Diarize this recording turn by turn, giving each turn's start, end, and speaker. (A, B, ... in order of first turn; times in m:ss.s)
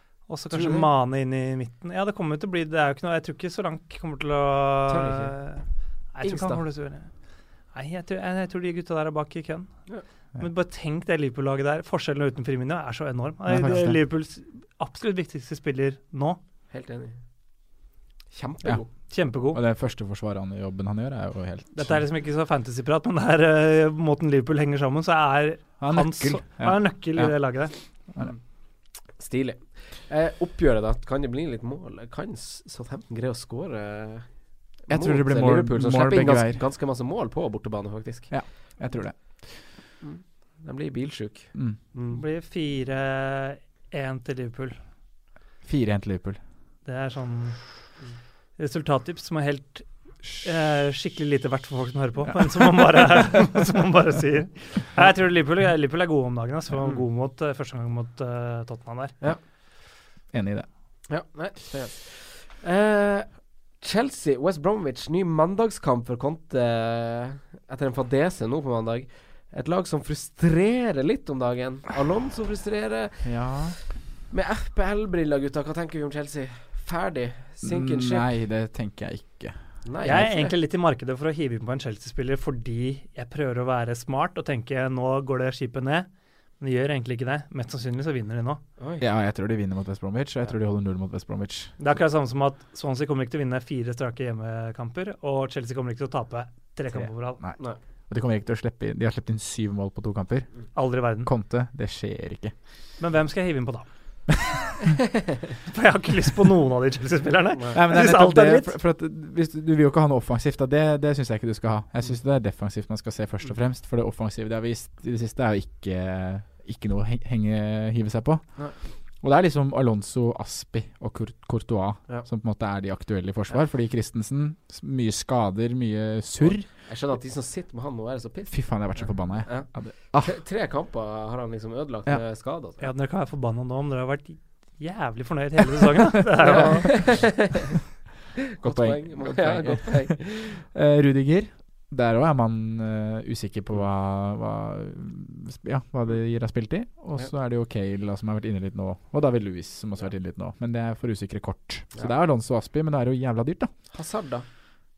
0:00.3-0:05.6 A
0:00.5-0:00.9 B
0:04.9-0:05.3 B
0:06.1-0:07.1 A
0:06.2-0:06.6 B
0:07.7-0:09.8 A
0:10.4-0:16.4 A
0:13.5-0:14.0 C
0:16.7-0:17.2 B
0:18.3-0:18.9 B
0:19.1-0:19.6 A
0:19.4-0:22.0 C
0:21.7-0:27.7 A
0:25.8-0:28.4 C
0:29.2-0:38.3 B
0:34.9-0:36.6 C
0:38.3-0:39.6 C
0:40.0-0:42.2 B
0:41.5-0:41.8 C
0:42.1-0:44.8 A
0:45.6-0:46.4 C
0:46.8-0:47.6 A
0:48.6-0:59.2 A
1:00.3-1:00.7 C
1:01.1-1:13.3 B
1:13.2-1:13.8 C
1:14.3-1:18.3 B
1:17.6-1:20.2 C
1:19.8-1:20.5 B
1:20.0-1:26.1 A
1:26.6-1:28.6 A
1:28.8-1:29.0 B
1:29.0-1:31.7 C
1:31.8-1:37.4 A
1:37.0-1:42.5 C
1:40.8-1:41.3 A
1:43.0-1:43.9 A
1:45.7-1:48.7 A
1:47.7-1:58.5 C
1:59.2-2:06.7 C
2:06.4-2:12.9 B
2:08.5-2:10.4 C
2:12.8-2:17.2 A
2:16.4-2:17.7 B
2:18.5-2:20.6 B
2:18.6-2:33.7 C
2:33.9-2:34.5 B